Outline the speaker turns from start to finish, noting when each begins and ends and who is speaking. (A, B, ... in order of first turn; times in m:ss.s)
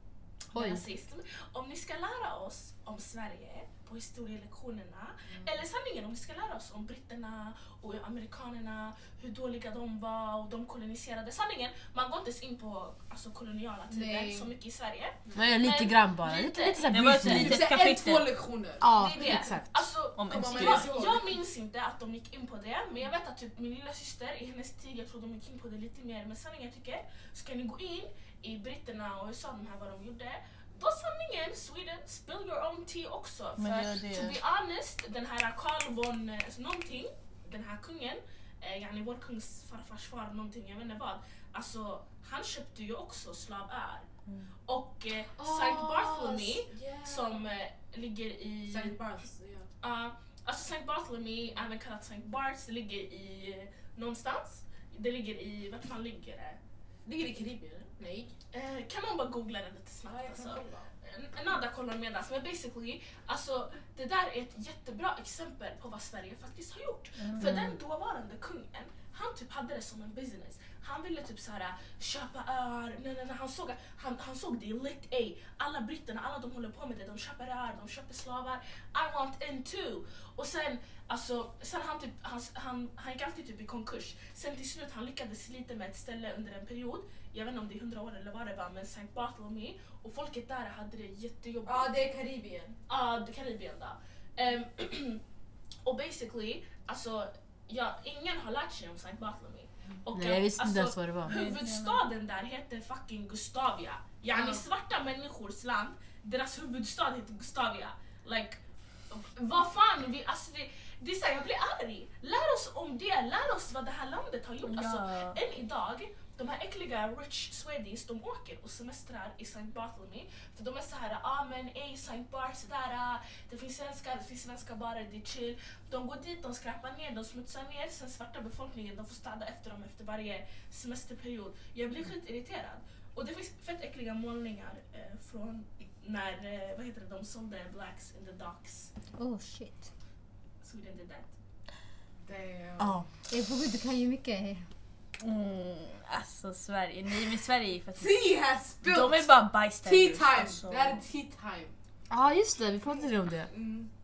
0:00.5-0:17.1 A
0:00.5-0:00.8 B
0:05.3-0:05.6 C
0:13.9-0:14.5 C
0:15.3-0:17.6 B
0:16.9-0:18.3 D
0:17.1-0:19.3 C
0:18.8-0:19.7 B
0:18.9-0:44.0 A
0:20.2-0:20.9 D
0:20.3-0:21.3 C
0:33.6-0:34.4 D
0:44.7-0:49.0 A
0:45.4-0:47.4 C
0:48.7-0:49.7 C
0:49.8-0:56.6 A
0:57.0-0:58.3 C
0:58.5-1:32.0 A
1:00.0-1:00.9 C
1:07.2-1:07.7 D
1:31.6-1:32.8 C
1:32.9-1:35.2 A
1:35.8-2:18.9 A
1:40.1-1:41.4 B
1:41.3-1:42.0 D
1:44.3-1:44.6 C
1:54.6-1:55.4 D
2:19.2-2:19.9 E
2:20.6-2:21.3 A
2:22.2-2:23.0 C
2:22.8-2:23.1 B
2:23.3-2:24.6 E
2:25.2-2:28.2 D
2:28.0-2:31.7 C
2:28.8-2:31.0 D
2:32.1-2:33.5 B
2:33.5-2:33.9 C